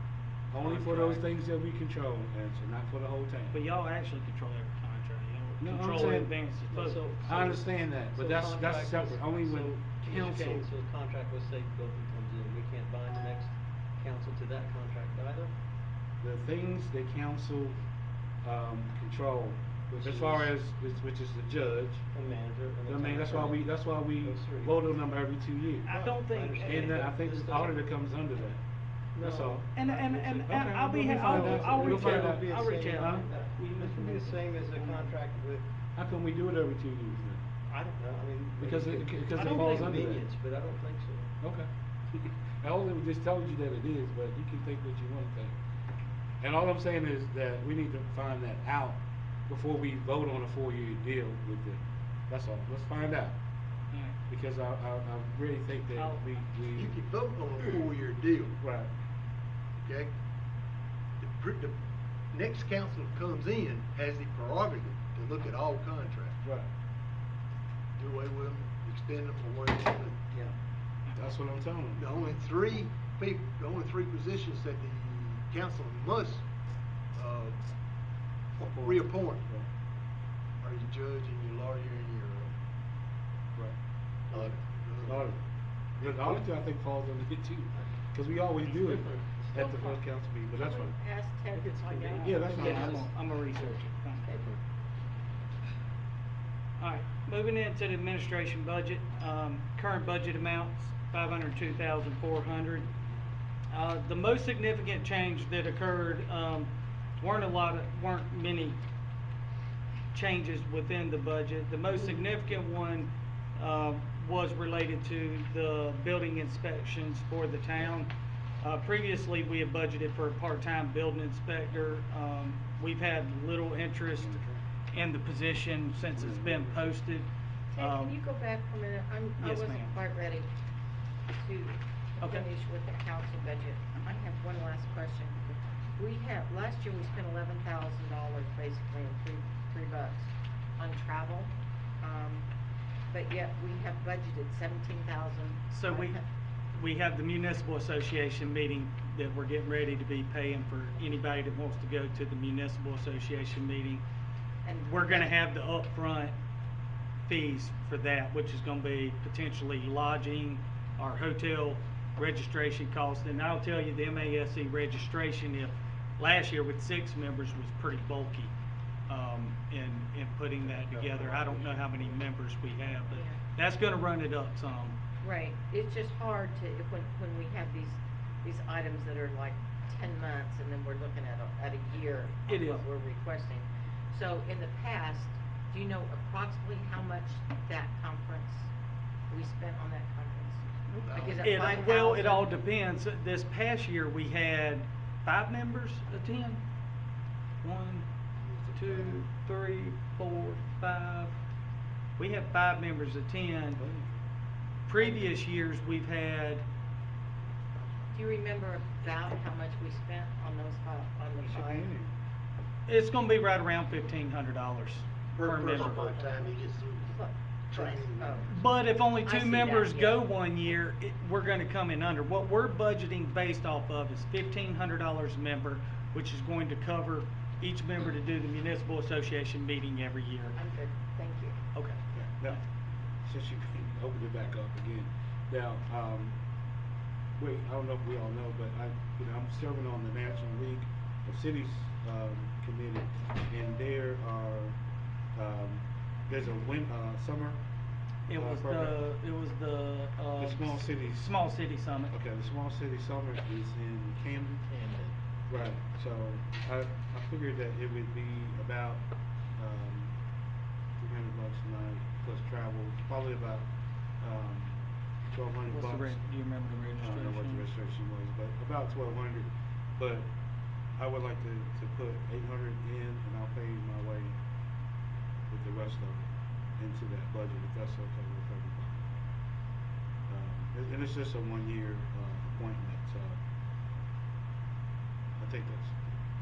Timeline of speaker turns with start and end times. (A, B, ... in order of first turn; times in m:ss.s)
0:00.5-0:03.6 A
0:00.6-0:01.3 B
0:03.5-0:07.0 C
0:05.6-0:06.3 A
0:06.7-0:15.5 B
0:07.2-0:10.7 A
0:16.2-0:17.8 A
0:18.4-0:22.1 A
0:19.9-0:20.6 B
0:22.1-0:24.9 B
0:22.9-0:26.1 A
0:25.8-0:27.1 C
0:26.3-0:27.8 B
0:26.6-0:28.6 A
0:29.2-0:35.7 B
0:29.2-0:29.7 A
0:29.7-0:35.2 C
0:30.4-0:33.3 A
0:36.0-0:37.4 A
0:37.7-0:41.4 B
0:38.6-0:40.2 A
0:39.3-0:40.0 C
0:41.4-0:45.6 A
0:46.4-0:53.4 A
0:53.9-0:54.2 C
0:54.3-0:57.0 A
0:55.9-0:56.2 C
0:56.7-0:58.6 D
0:58.6-0:58.9 A
0:59.8-1:00.1 D
1:01.2-1:01.8 D
1:02.3-1:06.4 D
1:06.4-1:06.7 A
1:08.0-1:10.3 D
1:11.1-1:11.4 C
1:11.1-1:12.0 A
1:12.0-1:16.4 D
1:17.1-1:17.6 D
1:18.6-1:19.5 D
1:18.6-1:19.7 A
1:20.6-1:22.5 D
1:24.3-1:25.3 D
1:25.0-1:25.4 A
1:26.0-1:26.4 D
1:26.0-1:31.0 A
1:29.1-1:29.5 B
1:29.5-1:33.0 E
1:31.5-1:33.0 B
1:32.2-1:33.1 A
1:32.3-1:34.3 C
1:33.6-1:34.6 B
1:36.8-1:42.9 C
1:43.7-1:48.8 C
1:50.1-2:04.4 C
2:04.2-2:04.6 A
2:04.9-2:08.2 C
2:06.0-2:06.9 A
2:07.7-2:10.5 E
2:09.4-2:10.0 C
2:11.4-2:15.4 E
2:12.2-2:12.5 C
2:16.0-2:22.5 E
2:23.1-2:26.3 E
2:25.7-2:26.2 C
2:26.7-2:34.0 C
2:34.6-2:35.4 E
2:34.9-2:36.4 C
2:37.3-2:48.5 C
2:49.1-2:55.0 C
2:50.9-2:52.2 D
2:53.1-2:53.4 E
2:55.2-3:08.7 E
3:02.4-3:02.9 C
3:09.3-3:12.6 E
3:10.9-3:16.6 C
3:11.0-3:11.5 D
3:17.6-3:18.1 C
3:18.4-3:19.2 D
3:18.7-3:21.4 C
3:22.2-3:23.8 C
3:23.8-3:24.2 A
3:24.9-3:26.7 C
3:25.0-3:25.3 E
3:28.1-3:31.9 E
3:31.4-3:32.1 A
3:32.9-3:36.1 C
3:35.3-3:38.6 D
3:35.9-3:36.4 E
3:37.1-3:40.2 E
3:38.5-3:50.6 C
3:50.5-3:51.6 E
3:51.7-3:52.6 C
3:52.1-3:52.6 A
3:53.2-3:56.4 A
3:57.4-4:04.8 A
4:05.4-4:07.6 A
4:08.3-4:12.2 C
4:08.3-4:09.0 A
4:10.4-4:11.4 A
4:12.1-4:14.7 A
4:15.5-4:19.0 A
4:19.6-4:20.1 A
4:21.0-4:23.7 A
4:24.2-4:26.3 A
4:25.7-4:27.7 C
4:27.0-4:30.3 A
4:31.0-4:34.4 A
4:35.5-4:39.1 A
4:40.3-4:43.4 A
4:45.4-4:46.0 A